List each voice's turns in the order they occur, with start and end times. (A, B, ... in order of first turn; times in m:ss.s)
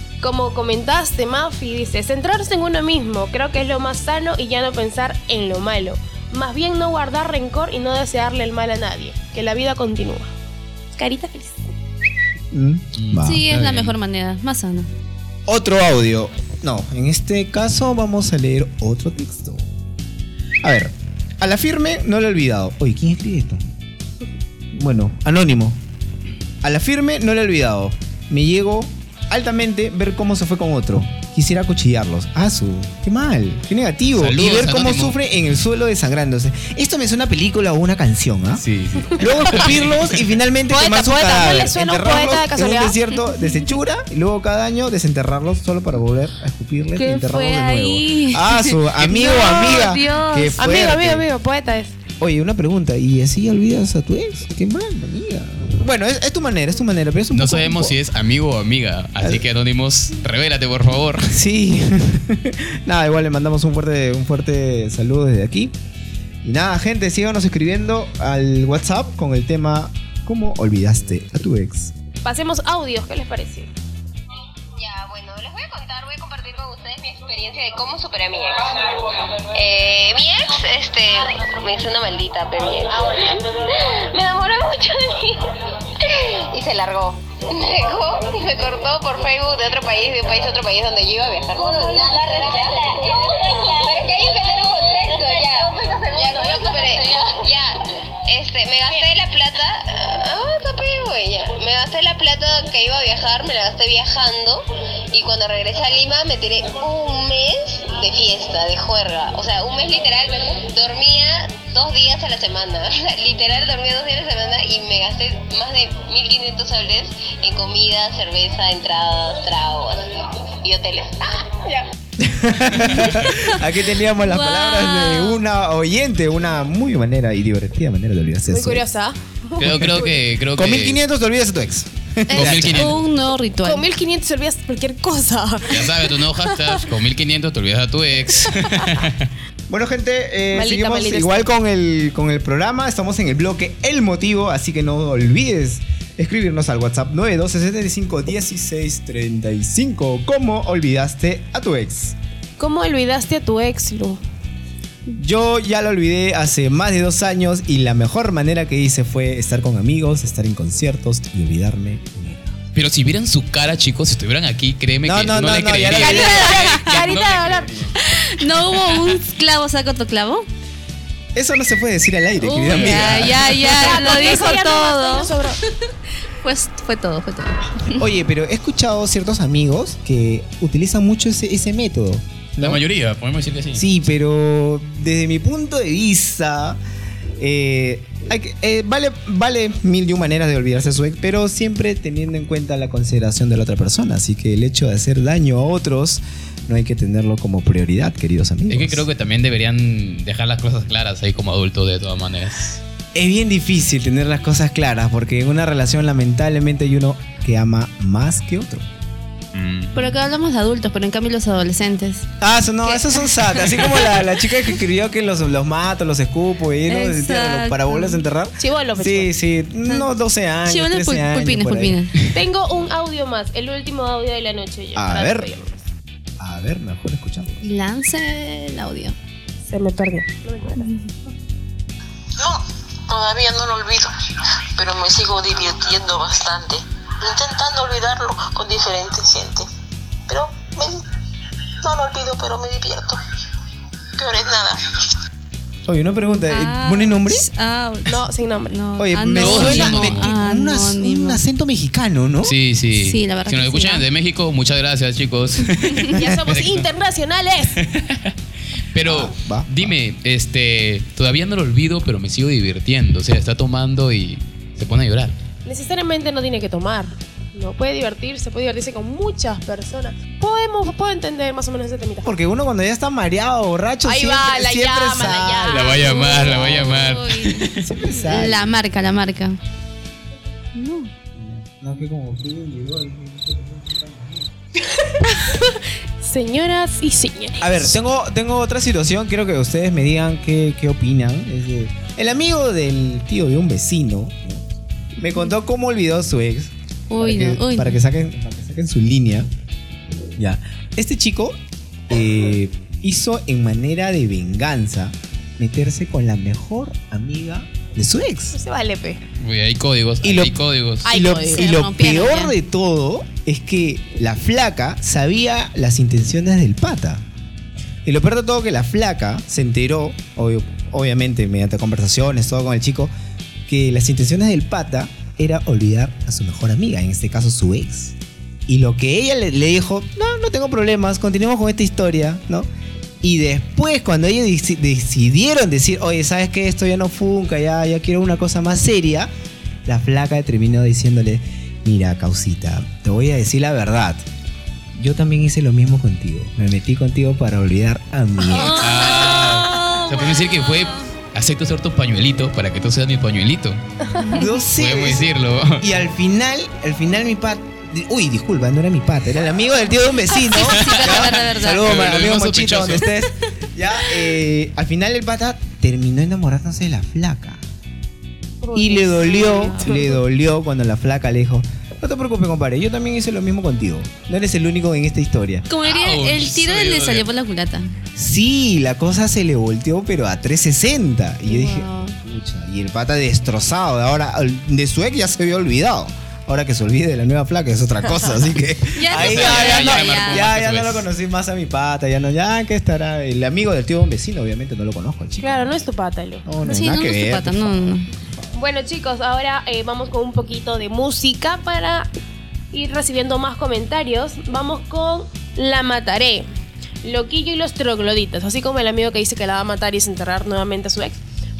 0:00.2-0:10.3 A
0:11.0-0:11.6 A
0:12.5-0:13.9 B
0:13.0-0:13.3 C
0:13.2-0:14.9 D
0:15.5-0:19.7 B
0:20.6-0:23.6 B
0:24.7-0:25.8 B
0:26.6-0:38.6 B
0:34.1-0:35.2 C
0:38.5-0:40.3 C
0:39.2-0:51.3 B
0:40.7-0:43.0 A
0:47.0-0:50.7 D
0:50.6-0:52.0 A
0:52.2-0:58.0 B
0:57.3-1:01.4 C
0:59.2-0:59.5 B
1:01.2-1:05.7 B
1:06.4-1:11.9 B
1:12.2-1:13.7 A
1:14.8-1:18.9 E
1:19.5-1:37.8 E
1:38.3-2:01.8 E
2:02.2-2:08.8 B
2:04.2-2:05.4 D
2:08.5-2:10.2 A
2:09.6-2:11.0 C
2:09.6-2:13.0 B
2:12.3-2:13.9 D
2:12.3-2:13.0 C
2:13.6-2:16.8 A
2:15.7-2:19.3 C
2:19.7-2:32.2 B
2:20.5-2:21.4 A
2:32.6-2:34.2 A
2:35.2-2:42.6 B
2:42.8-2:47.9 C
2:45.0-2:46.8 B
2:45.9-2:47.7 A
2:46.1-2:47.2 D
2:48.0-2:50.5 D
2:51.3-2:53.7 B
2:52.4-2:55.4 D
2:52.7-2:53.6 C
2:53.7-2:55.6 A
2:56.3-2:58.0 D
2:58.0-3:02.8 B
3:02.6-3:03.9 C
3:03.8-3:06.8 B
3:07.4-3:19.1 B
3:18.7-3:22.8 C
3:23.2-3:28.9 B
3:29.5-3:30.2 C
3:29.9-3:32.3 D
3:32.4-3:42.4 B
3:32.8-3:34.2 D
3:36.9-3:38.2 D
3:38.6-3:39.3 A
3:40.7-3:42.1 D
3:42.3-3:45.8 A
3:45.0-3:45.5 B
3:46.4-3:47.6 B
3:47.6-3:49.2 D
3:49.7-3:50.9 A
3:52.4-3:54.1 F
3:54.8-3:59.6 F
4:00.3-4:01.0 F
4:01.8-4:03.2 F
4:04.2-4:04.8 F
4:05.9-4:07.5 B
4:06.5-4:11.4 D
4:08.1-4:08.8 A
4:09.0-4:12.6 B
4:09.3-4:10.3 C
4:12.4-4:16.9 C
4:13.0-4:14.0 D
4:16.1-4:17.8 A
4:17.8-4:18.3 C
4:18.9-4:25.4 C
4:19.0-4:19.9 B
4:25.6-4:32.3 A
4:32.2-4:37.0 B
4:34.0-4:36.5 A
4:35.7-4:37.8 C
4:35.9-4:39.6 D
4:37.8-4:38.7 B
4:40.8-4:41.1 D
4:41.3-4:44.5 B
4:45.4-4:47.9 A
4:47.6-4:54.7 B
4:55.2-4:59.5 B
4:57.1-4:58.0 D
5:00.4-5:01.6 B
5:02.1-5:08.6 B
5:08.5-5:09.2 A
5:09.4-5:11.1 C
5:10.2-5:17.2 B
5:11.1-5:11.6 A
5:11.2-5:12.5 D
5:18.0-5:23.1 B
5:23.7-5:28.2 B
5:28.7-5:32.7 B
5:33.2-5:39.3 B
5:39.9-5:44.2 B
5:44.9-5:49.2 B
5:48.7-5:53.8 C
5:54.2-5:54.5 D
5:54.3-6:07.6 B
5:54.7-5:55.9 C
6:00.3-6:01.9 D
6:00.5-6:03.1 C
6:08.6-6:10.2 A
6:08.8-6:15.7 B
6:09.4-6:09.6 D
6:15.7-6:17.9 D
6:15.8-6:17.3 C
6:18.2-6:35.7 B
6:21.5-6:22.2 D
6:29.0-6:30.5 D
6:29.1-6:31.1 C
6:35.4-6:36.4 A
6:36.4-6:38.0 B
6:36.7-6:38.1 D
6:38.5-6:42.1 A
6:42.7-6:46.5 A
6:47.0-6:51.2 A